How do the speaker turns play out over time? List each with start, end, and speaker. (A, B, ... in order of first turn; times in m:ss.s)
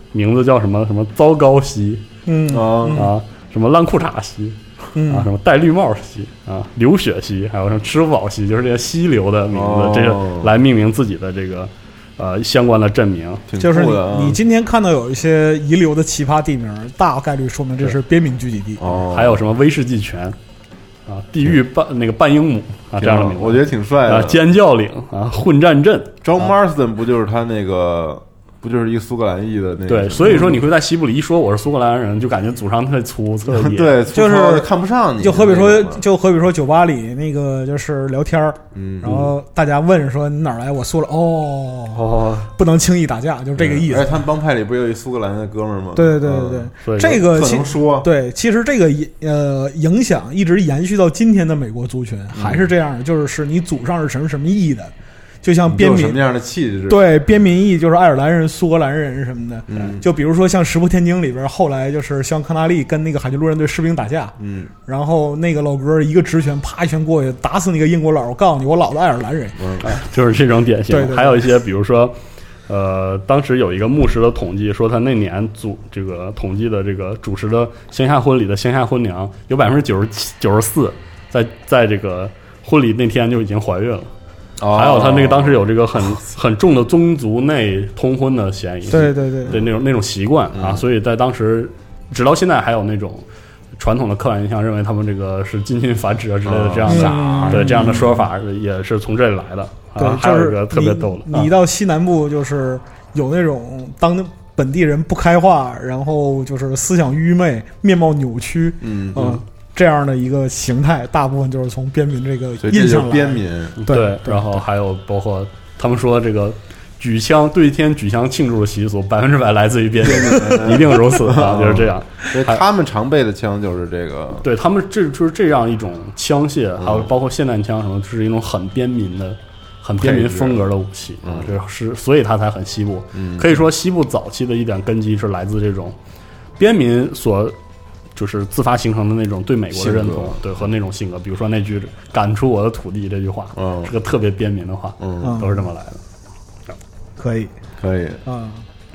0:00.1-0:02.1 A
0:02.3-0:03.1 B
0:02.5-0:03.1 C
0:02.9-0:13.4 A
0:05.0-0:05.3 B
0:09.5-0:10.5 C
0:13.5-0:14.4 C
0:13.6-0:18.9 B
0:18.8-0:19.4 C
0:19.1-0:20.4 A
0:21.1-0:26.2 A
0:23.0-0:24.4 C
0:26.2-0:30.6 C
0:29.9-0:34.0 A
0:33.5-0:36.0 C
0:34.1-0:34.7 B
0:35.2-0:42.0 B
0:38.7-0:39.2 C
0:39.0-0:39.3 A
0:41.9-0:42.5 A
0:42.6-0:44.2 B
0:43.6-0:48.1 C
0:46.0-0:54.9 B
0:46.8-0:47.3 A
0:52.3-0:52.7 C
0:55.4-0:56.2 B
0:55.6-0:57.2 C
0:56.9-1:09.6 B
0:59.7-1:00.1 C
1:04.4-1:04.7 C
1:09.6-1:09.9 C
1:09.8-1:12.2 A
1:10.9-1:11.5 B
1:12.7-1:24.1 A
1:24.6-1:26.2 C
1:24.7-1:33.2 A
1:28.9-1:29.6 B
1:30.5-1:30.8 C
1:33.8-1:41.5 A
1:36.4-1:38.2 C
1:36.9-1:38.2 B
1:40.0-1:54.4 B
1:48.8-1:49.4 C
1:49.2-1:49.4 A
1:52.6-1:53.8 C
1:53.8-2:02.6 A
2:00.0-2:04.5 C
2:04.4-2:16.0 A
2:06.8-2:07.1 C
2:10.0-2:10.7 C
2:11.2-2:11.5 C
2:13.1-2:13.6 C
2:16.6-2:17.6 A
2:18.2-2:26.0 A
2:19.7-2:20.5 C
2:23.6-2:23.9 C
2:25.0-2:25.4 C
2:25.2-2:25.6 B
2:27.2-2:27.5 B
2:27.8-2:28.2 C
2:28.2-2:28.6 B